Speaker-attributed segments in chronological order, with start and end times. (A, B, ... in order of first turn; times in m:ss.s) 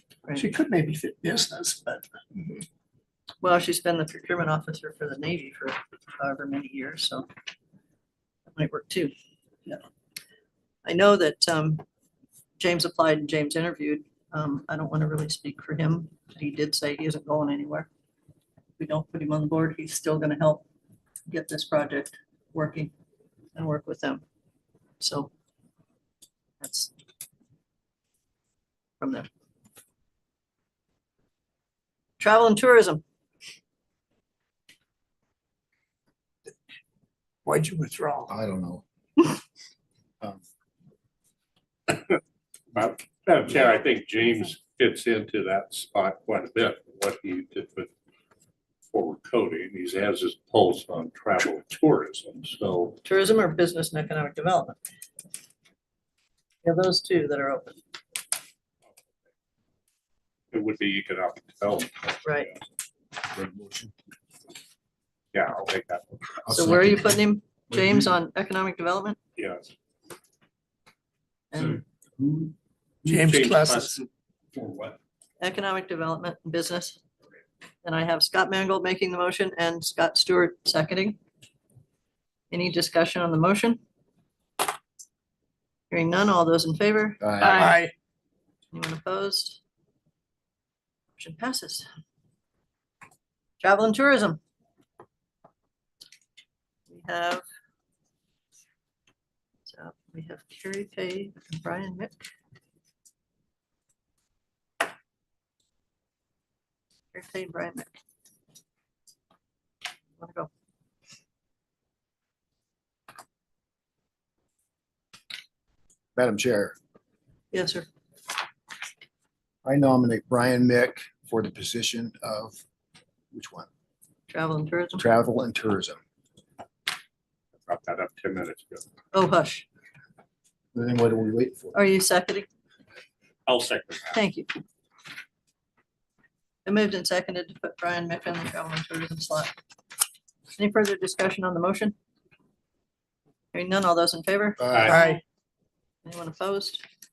0:00.3-0:02.1 A
0:03.4-0:07.3 B
0:08.5-0:09.1 B
0:10.8-0:11.8 B
0:12.6-0:17.9 B
0:18.8-0:20.6 B
0:21.3-0:22.9 B
0:23.5-0:24.2 B
0:25.0-0:25.3 B
0:26.6-0:26.9 B
0:29.0-0:29.3 B
0:32.2-0:33.0 B
0:37.4-0:38.3 A
0:38.3-0:38.8 C
0:41.9-0:42.2 D
0:42.7-0:47.9 D
0:48.9-0:53.0 D
0:53.0-0:54.8 B
0:56.6-0:57.8 B
1:00.5-1:02.6 D
1:02.2-1:02.5 B
1:03.3-1:03.9 C
1:05.3-1:06.4 D
1:06.4-1:08.1 C
1:06.5-1:09.2 B
1:09.4-1:09.7 D
1:11.5-1:11.8 B
1:12.2-1:12.5 C
1:13.0-1:14.0 D
1:13.0-1:14.0 A
1:15.4-1:17.0 B
1:17.8-1:21.2 B
1:22.5-1:23.8 B
1:25.9-1:27.2 B
1:27.2-1:27.8 C
1:27.5-1:27.9 A
1:28.7-1:29.6 B
1:31.2-1:31.9 B
1:33.6-1:34.4 B
1:36.9-1:37.4 B
1:39.7-1:42.2 B
1:47.1-1:47.9 B
1:50.2-1:50.5 B
1:56.2-1:56.8 C
1:57.5-1:57.9 B
1:59.6-2:02.6 C
2:03.3-2:03.7 C
2:04.3-2:05.0 B
2:05.0-2:06.0 C
2:07.6-2:08.8 D
2:09.1-2:09.6 B
2:10.7-2:11.8 C
2:11.7-2:12.5 B
2:13.5-2:14.2 D
2:14.1-2:14.5 B
2:16.6-2:19.5 B
2:20.5-2:21.9 B
2:23.5-2:24.9 B
2:24.6-2:25.0 C
2:24.6-2:25.2 D
2:24.9-2:25.2 A
2:26.0-2:26.8 B